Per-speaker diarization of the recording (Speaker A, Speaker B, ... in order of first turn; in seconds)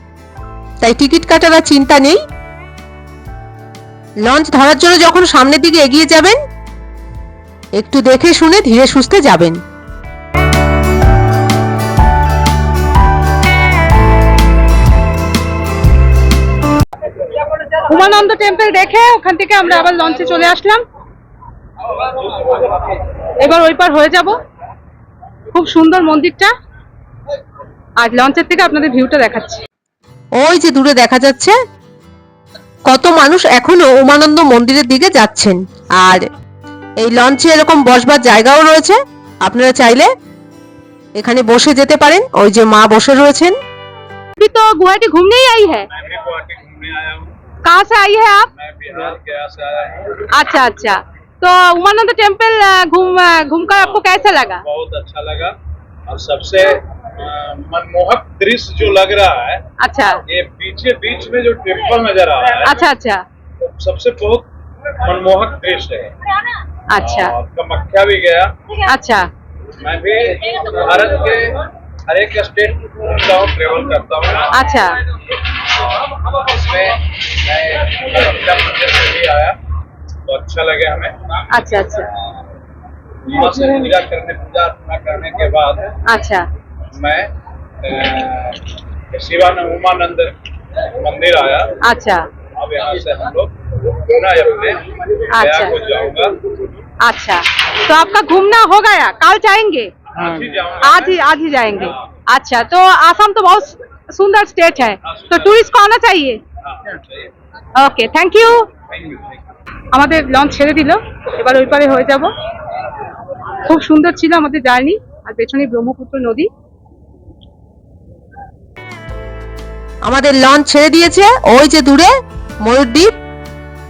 Speaker A: 0.8-2.2, 4.2-6.4, 7.8-9.6, 30.4-31.6, 32.9-36.2, 37.0-40.1, 41.2-43.6, 120.0-123.2
Speaker B: 17.7-20.8, 23.4-24.4, 25.5-26.5, 28.0-29.6, 44.4-45.9, 47.6-48.5, 50.3-54.6, 59.8-60.2, 62.6-63.2, 66.9-67.3, 68.8-69.3, 74.5-75.0, 81.5-82.1, 86.0-86.5, 91.8-92.3, 95.3-95.7, 97.0-99.9, 100.8-106.4, 107.7-108.7, 109.9-112.3, 113.6-116.5
Speaker C: 45.9-47.3, 48.5-50.2, 54.6-55.5, 56.1-59.6, 60.3-62.7, 63.6-64.5, 65.0-66.1, 67.0-68.5, 69.8-74.5, 75.8-79.6, 80.3-81.2, 83.2-86.0, 86.9-90.3, 91.0-91.7, 92.6-96.4, 100.1-101.2, 105.1-105.3, 106.7-107.2